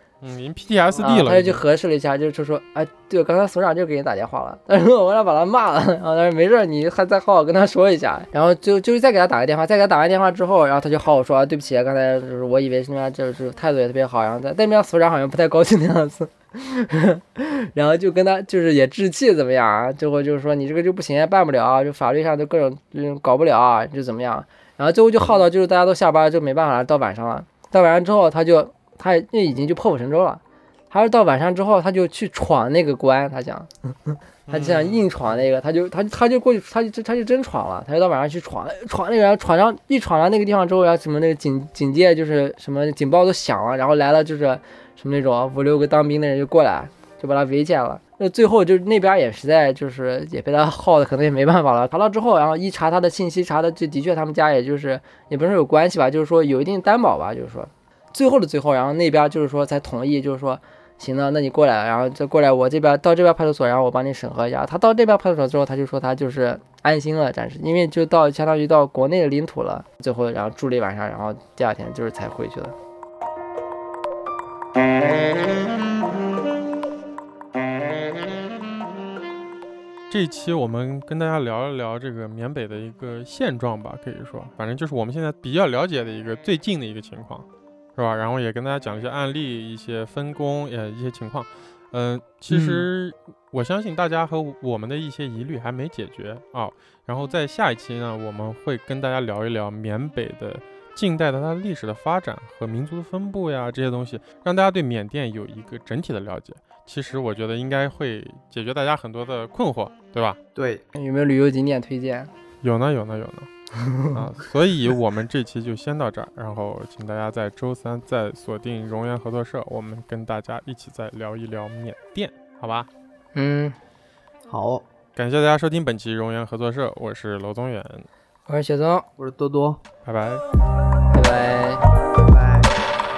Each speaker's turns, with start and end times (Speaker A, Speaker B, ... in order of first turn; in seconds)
Speaker A: 0.2-1.6, 34.5-35.1, 80.1-87.4, 88.0-110.4, 112.6-113.5, 114.1-122.9, 125.2-128.1, 130.0-130.4
Speaker B: 1.0-72.7, 110.9-112.3, 113.7-114.2, 123.3-123.7, 128.5-129.1, 131.1-131.8
Speaker C: 92.5-92.8, 110.5-110.8, 124.5-124.8, 129.2-129.8, 132.3-132.7